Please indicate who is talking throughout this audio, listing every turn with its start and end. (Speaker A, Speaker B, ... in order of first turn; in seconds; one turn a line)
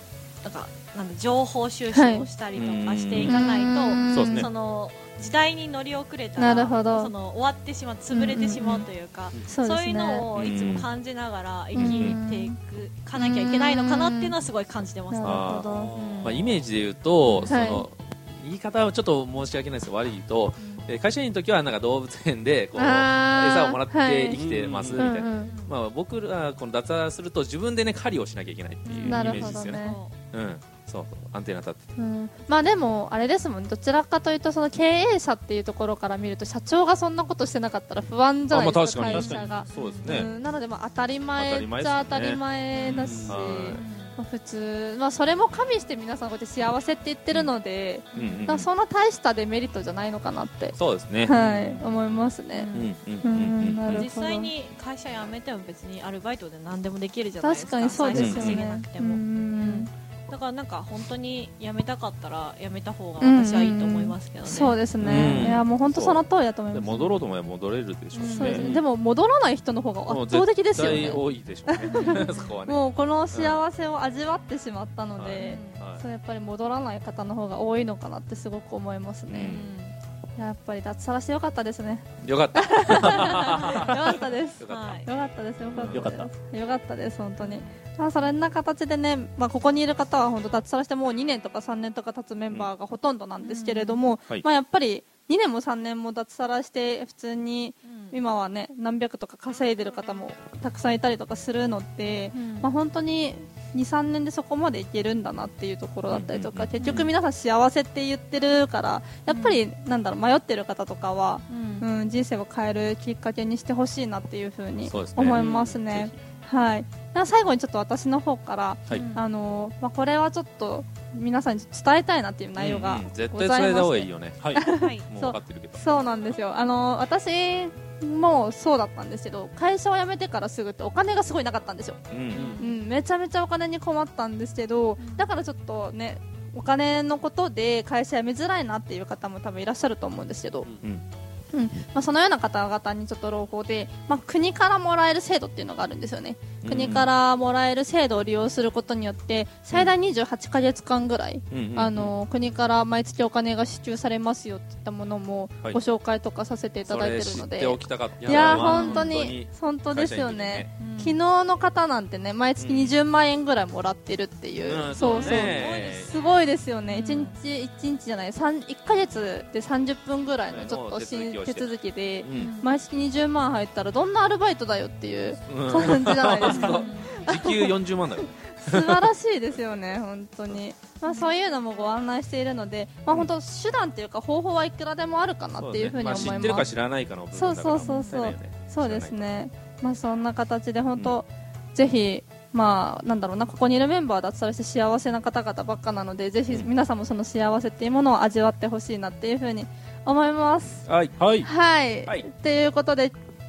Speaker A: 0.4-16.5
Speaker B: 1.9-2.3
Speaker C: 2.5-3.4
Speaker B: 3.2-4.5
Speaker C: 4.1-4.5
Speaker B: 6.4-7.1
Speaker B: 8.1-8.9
Speaker B: 9.5-10.3
Speaker C: 10.3-10.9
Speaker B: 11.7-12.6
Speaker C: 11.8-12.2
Speaker B: 13.2-14.3
Speaker B: 15.1-15.9
Speaker C: 15.2-15.7
Speaker D: 15.7-16.6
Speaker C: 16.2-31.8
Speaker A: 17.2-17.7
Speaker B: 17.4-17.9
Speaker A: 20.6-20.9
Speaker B: 22.8-25.5
Speaker D: 24.3-25.1
Speaker A: 25.3-25.7
Speaker A: 28.9-30.2
Speaker B: 29.0-30.0
Speaker B: 32.0-54.5
Speaker C: 38.5-40.3
Speaker D: 39.1-39.5
Speaker A: 39.1-40.3
Speaker C: 41.4-43.8
Speaker A: 42.8-43.1
Speaker D: 42.9-43.4
Speaker A: 43.7-44.2
Speaker A: 48.1-48.4
Speaker C: 48.1-48.7
Speaker C: 50.7-54.0
Speaker A: 52.5-52.9
Speaker A: 53.9-65.6
Speaker B: 57.4-59.9
Speaker C: 58.1-58.6
Speaker B: 63.2-67.2
Speaker C: 65.0-68.8
Speaker A: 68.1-68.7
Speaker B: 68.3-79.6
Speaker C: 70.1-72.8
Speaker A: 71.9-72.5
Speaker C: 73.3-73.6
Speaker C: 75.2-76.0
Speaker A: 75.4-75.8
Speaker C: 79.3-79.7
Speaker A: 79.5-80.0
Speaker B: 80.4-132.0
Speaker C: 82.2-85.0
Speaker A: 83.3-83.9
Speaker A: 84.7-85.1
Speaker C: 85.7-86.1
Speaker D: 85.9-86.3
Speaker A: 87.4-87.7
Speaker A: 93.4-94.0
Speaker A: 97.8-98.2
Speaker A: 102.3-102.7
Speaker C: 106.1-107.1
Speaker A: 106.8-107.1
Speaker A: 109.3-109.6
Speaker A: 111.5-111.9
Speaker C: 114.9-116.1
Speaker D: 115.3-115.8
Speaker A: 118.9-119.2
Speaker C: 122.6-124.6
Speaker A: 124.7-125.1
Speaker C: 125.1-125.8
Speaker A: 125.9-126.3
Speaker C: 132.1-132.5
Speaker A: 132.3-132.8
Speaker D: 132.4-132.6
Speaker B: 132.6-140.7
Speaker A: 135.0-135.3
Speaker B: 141.5-177.8
Speaker C: 146.6-147.1
Speaker C: 151.5-152.1
Speaker C: 156.9-160.7
Speaker D: 158.2-158.7
Speaker A: 158.7-159.1
Speaker A: 160.8-161.2
Speaker C: 162.6-163.0
Speaker C: 164.6-166.2
Speaker A: 165.0-165.7
Speaker A: 166.9-167.4
Speaker C: 170.5-171.7
Speaker C: 172.2-172.5
Speaker A: 172.3-172.7
Speaker C: 175.4-179.0
Speaker A: 176.4-177.2
Speaker B: 178.6-186.7
Speaker A: 181.1-181.3
Speaker C: 185.6-189.4
Speaker A: 186.2-186.5
Speaker B: 187.3-200.8
Speaker A: 187.8-188.2
Speaker C: 200.9-201.2
Speaker D: 201.2-201.5
Speaker B: 201.4-203.2